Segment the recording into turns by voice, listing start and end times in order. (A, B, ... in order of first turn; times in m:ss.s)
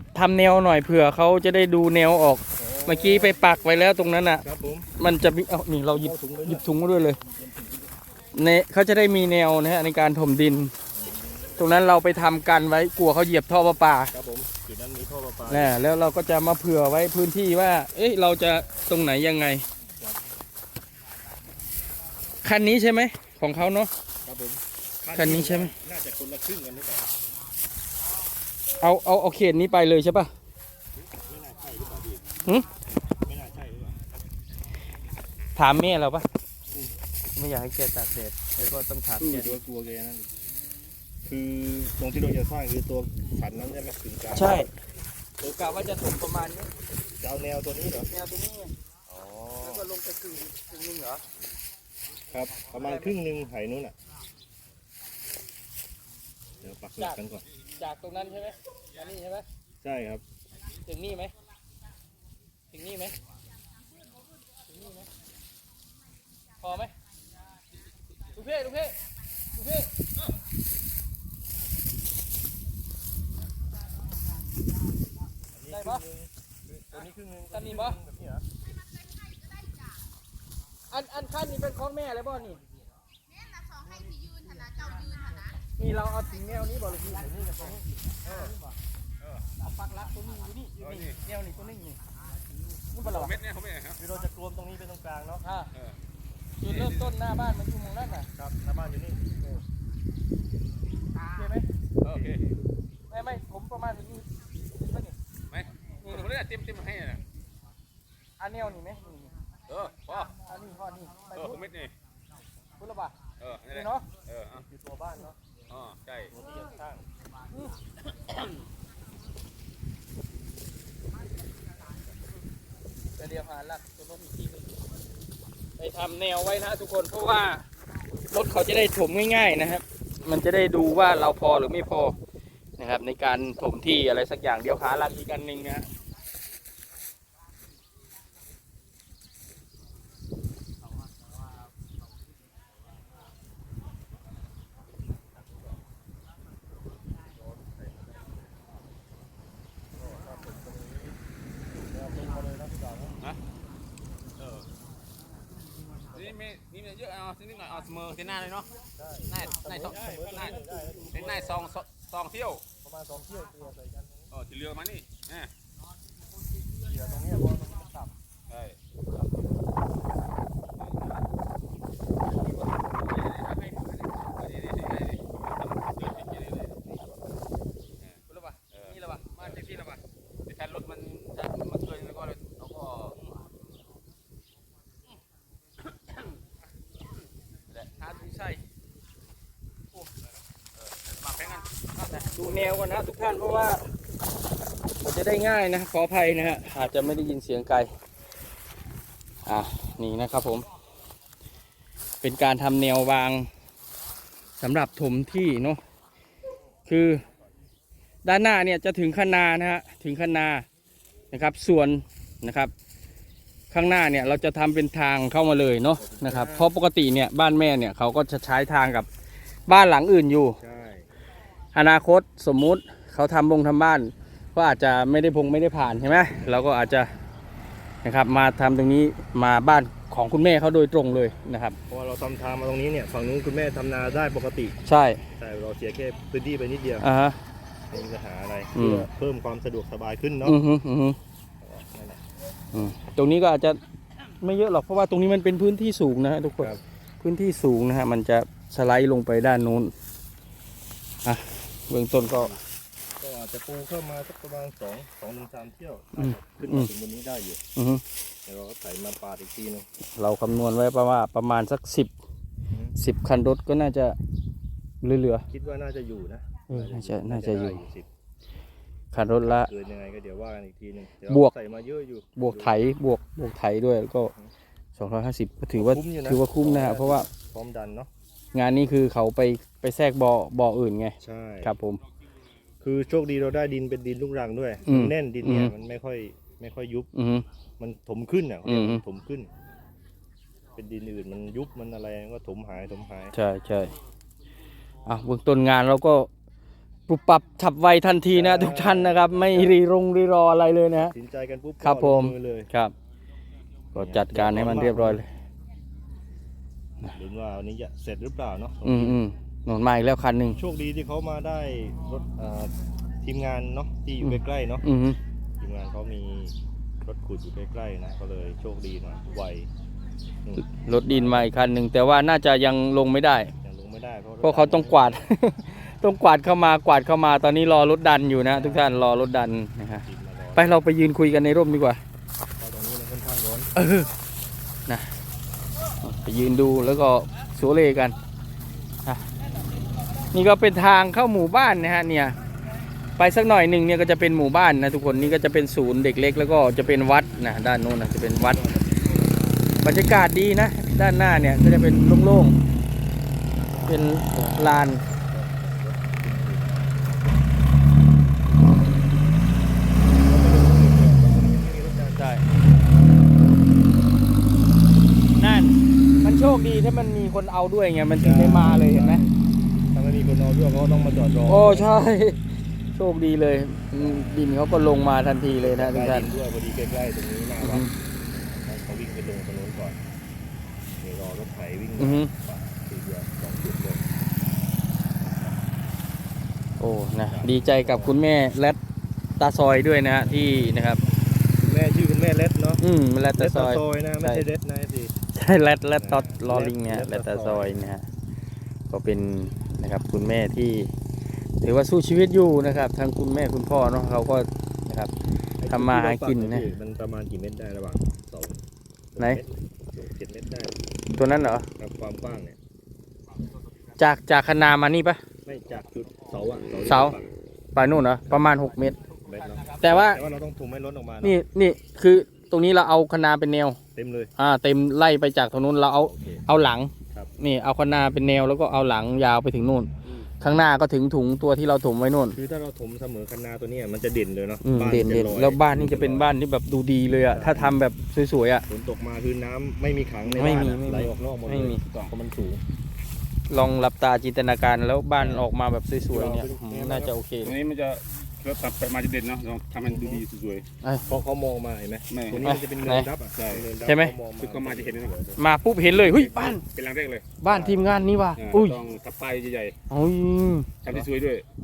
0:00.2-0:04.4 A
0:02.6-0:03.4 B
0:04.4-0:04.9 B
0:05.0-0:07.2 A
0:06.0-0:06.7 B
0:07.4-0:07.7 B
0:08.3-0:10.7 A
0:11.0-0:11.6 B
0:11.6-0:14.1 A
0:14.1-0:15.8 B
0:15.5-0:19.6 A
0:22.4-0:23.9 A
0:24.2-0:27.1 B
0:25.1-0:25.7 A
0:28.8-0:30.3 A
0:31.0-0:32.2 B
0:33.1-0:34.0 B
0:35.6-0:36.3 A
0:37.3-0:39.6 A
0:39.2-0:40.3 B
0:41.2-0:44.7 B
0:44.3-0:44.7 A
0:45.4-0:46.7 A
0:47.2-0:48.1 B
0:48.1-0:48.7 A
0:49.1-0:49.9 B
0:49.6-0:51.2 A
0:52.3-0:54.0 B
0:52.8-0:53.1 A
0:56.6-0:57.4 B
0:57.8-0:59.4 A
0:59.8-1:00.2 B
1:00.8-1:01.3 A
1:02.7-1:03.2 A
1:04.7-1:05.1 A
1:06.6-1:06.9 A
1:08.3-1:09.0 A
1:09.6-1:09.9 A
1:15.5-1:18.4 B
1:15.7-1:16.0 A
1:17.5-1:18.0 A
1:19.2-1:19.6 C
1:20.9-1:22.6 A
1:23.4-1:25.4 C
1:25.8-1:27.8 A
1:27.1-1:28.5 B
1:29.6-1:32.0 A
1:30.8-1:31.2 D
1:32.9-1:33.3 A
1:33.0-1:34.0 D
1:34.0-1:35.4 B
1:35.4-1:35.7 A
1:36.6-1:38.3 A
1:36.7-1:37.1 D
1:38.4-1:39.4 B
1:41.2-1:41.7 A
1:42.0-1:42.6 D
1:43.1-1:45.2 A
1:45.5-1:47.2 D
1:46.0-1:46.3 A
1:48.4-1:49.3 A
1:49.7-1:50.4 D
1:50.4-1:51.6 A
1:51.3-1:51.9 D
1:52.8-1:53.2 A
1:53.4-1:54.6 D
1:53.7-1:54.1 A
1:54.5-1:55.4 B
1:55.7-1:56.3 D
1:56.3-1:57.1 B
2:03.2-2:04.8 A
2:05.8-2:07.6 A
2:08.3-2:12.2 A
2:12.8-2:15.9 A
2:30.0-2:31.2 B
2:31.8-2:33.2 B
2:34.4-2:34.7 D
2:36.1-2:38.8 D
2:38.9-2:41.7 B
2:39.3-2:42.7 D
2:42.8-2:44.3 B
2:44.3-2:45.5 D
2:46.8-2:48.1 B
2:48.5-2:48.8 D
2:50.8-2:51.1 D
2:53.2-2:56.8 D
2:58.3-3:00.0 A
2:58.7-2:59.6 D
3:00.5-3:03.2 D
3:07.7-3:08.6 A
3:10.8-3:12.2 D
3:12.1-3:13.8 A
3:15.0-3:17.9 A
3:19.5-3:20.6 A
3:22.2-3:23.5 A
3:24.6-3:25.8 A
3:26.9-3:27.2 A
3:28.2-3:30.7 A
3:31.3-3:32.7 A
3:33.7-3:39.1 A
3:36.0-3:36.7 B
3:39.7-3:40.6 A
3:40.6-3:41.1 B
3:41.7-3:47.1 A
3:48.0-3:51.8 A
3:51.9-3:54.8 B
3:54.8-3:55.2 A
3:55.3-3:57.0 B
3:57.0-3:57.4 A
3:57.9-4:00.6 B
3:58.8-3:59.1 A
4:00.4-4:01.2 A
4:01.6-4:02.2 B
4:02.7-4:03.8 A
4:04.4-4:09.9 A
4:11.2-4:12.6 A
4:12.2-4:12.6 B
4:13.2-4:17.6 B
4:16.2-4:16.9 A
4:17.8-4:18.0 A
4:18.5-4:19.9 B
4:20.2-4:22.1 A
4:23.0-4:24.2 A
4:25.0-4:25.4 A
4:25.5-4:28.1 B
4:26.7-4:27.8 A
4:29.1-4:29.7 A
4:29.4-4:32.8 B
4:31.3-4:31.5 A
4:32.4-4:34.3 A
4:35.0-4:37.3 A
4:35.7-4:38.1 B
4:38.5-4:42.0 A
4:41.2-4:41.7 B
4:42.8-4:47.1 B
4:44.9-4:45.7 A
4:47.1-4:47.4 A
4:47.8-4:49.5 B
4:48.7-4:49.0 A
4:50.8-4:53.3 B
4:53.3-4:53.9 A
4:55.1-4:56.3 A
4:57.1-5:01.1 A
4:58.3-4:59.8 B
5:01.0-5:02.7 B
5:01.8-5:02.9 A
5:03.9-5:05.2 B
5:04.0-5:05.3 A
5:07.1-5:09.2 B
5:08.8-5:10.6 A
5:10.6-5:14.9 B
5:14.2-5:15.2 A
5:15.6-5:19.7 B
5:20.5-5:21.5 B
5:20.8-5:23.5 A
5:23.6-5:25.3 B
5:24.4-5:30.0 A
5:28.5-5:29.0 B
5:30.0-5:30.8 B
5:30.6-5:32.0 A
5:32.6-5:33.7 B
5:33.8-5:34.1 A
5:36.0-5:38.2 A
5:40.3-5:42.4 A
5:43.2-5:48.6 A
5:48.4-5:49.9 B
5:49.8-5:52.6 A
5:53.9-5:55.0 A
5:54.3-5:57.3 B
6:00.1-6:02.3 B
6:02.2-6:02.4 A
6:05.4-6:09.2 A
6:08.2-6:09.3 B
6:09.9-6:11.9 B
6:11.5-6:12.4 A
6:12.9-6:16.3 A
6:13.9-6:14.5 B
6:15.5-6:20.0 B
6:17.6-6:17.9 A
6:21.0-6:24.1 B
6:22.0-6:22.3 A
6:25.2-6:25.6 B
6:26.8-6:28.8 A
6:27.3-6:28.2 B
6:29.4-6:31.0 A
6:30.2-6:30.8 B
6:31.6-6:32.8 B
6:32.8-6:34.4 A
6:33.4-6:35.1 B
6:35.3-6:38.0 A
6:36.0-6:37.9 B
6:38.9-6:40.9 A
6:41.6-6:45.1 A
6:45.6-6:48.6 B
6:45.7-6:46.7 A
6:49.1-6:50.8 B
6:51.1-6:51.7 A
6:51.8-6:52.6 B
6:54.0-6:55.2 A
6:55.4-6:57.3 B
6:56.9-6:57.2 A
6:57.8-6:59.0 A
6:59.2-7:01.4 B
6:59.8-7:00.2 A
7:01.2-7:03.8 A
7:04.0-7:04.3 B
7:04.4-7:12.4 A
7:06.0-7:06.5 B
7:12.3-7:16.4 B
7:14.6-7:18.6 A
7:17.3-7:17.8 B
7:18.7-7:22.6 B
7:20.3-7:21.8 A
7:23.5-7:27.5 A
7:25.2-7:25.5 B
7:26.1-7:27.2 B
7:27.4-7:30.7 D
7:29.8-7:30.2 B
7:31.1-7:35.4 B
7:32.1-7:32.5 D
7:32.4-7:33.1 A
7:33.4-7:33.7 D
7:33.8-7:34.1 A
7:34.4-7:35.2 D
7:35.4-7:36.6 A
7:35.8-7:37.3 D
7:37.4-7:38.8 A
7:37.4-7:38.0 B
7:38.4-7:39.8 D
7:39.9-7:40.7 A
7:40.8-7:41.5 D